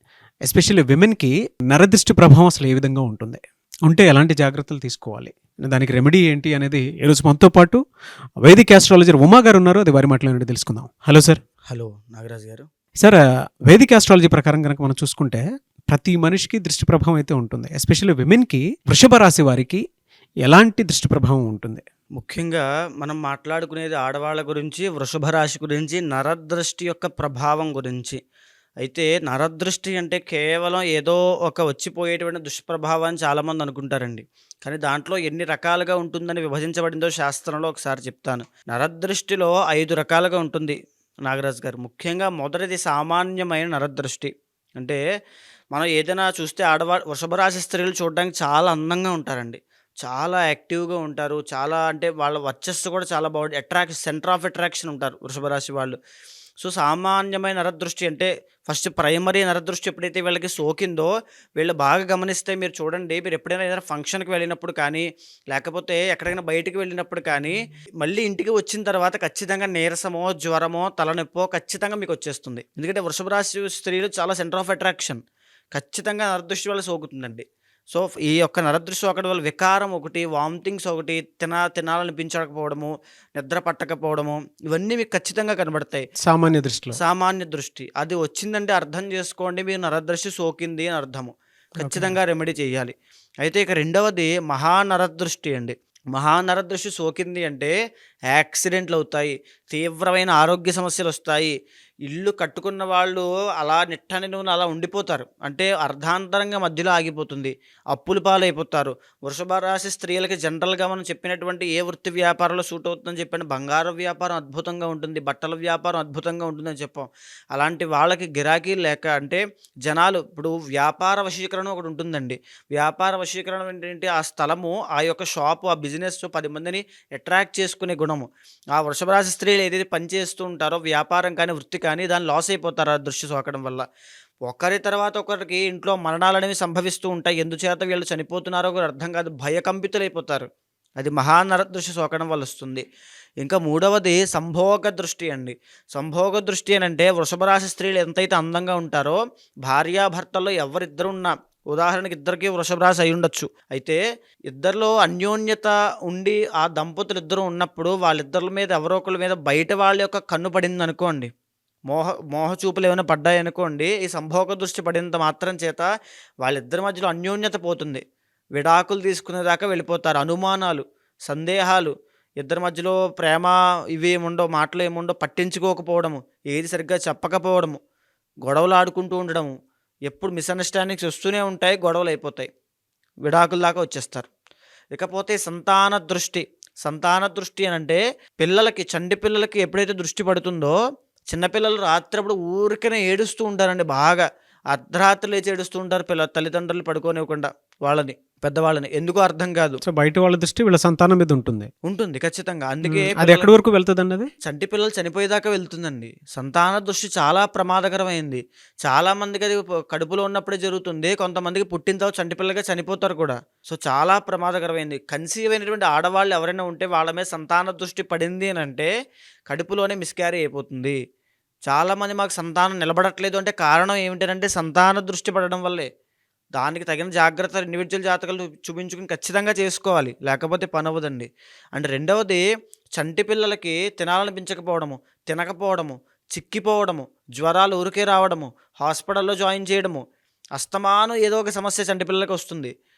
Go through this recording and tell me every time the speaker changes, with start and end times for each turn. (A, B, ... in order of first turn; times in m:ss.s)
0:00.4-0:07.8 A
0:08.4-0:11.4 A
0:11.7-0:12.7 B
0:13.0-0:19.8 A
0:20.4-0:21.8 A
0:22.2-0:28.2 B
0:28.8-0:40.8 B
0:41.3-0:45.0 B
0:45.7-0:56.0 B
0:56.6-1:15.2 B
1:15.7-1:26.0 B
1:26.2-1:27.0 A
1:27.0-1:37.7 B
1:31.8-1:32.1 A
1:38.3-1:41.5 B
1:42.1-2:13.8 B
2:14.5-2:20.5 B
2:21.0-2:22.8 B
2:23.4-2:34.0 B
2:34.5-2:41.3 B
2:41.9-2:45.9 B
2:46.4-2:48.0 B
2:48.6-2:57.8 B
2:58.4-2:59.5 B
3:00.1-3:02.5 B
3:03.2-3:04.3 B
3:04.9-3:10.8 B
3:11.3-3:19.8 B
3:19.8-3:21.7 A
3:21.8-3:23.5 B
3:22.8-3:24.3 A
3:24.4-3:38.9 B
3:39.5-3:41.0 B
3:41.7-3:45.9 B
3:46.6-3:52.4 B
3:53.0-4:00.0 B
4:00.6-4:02.7 B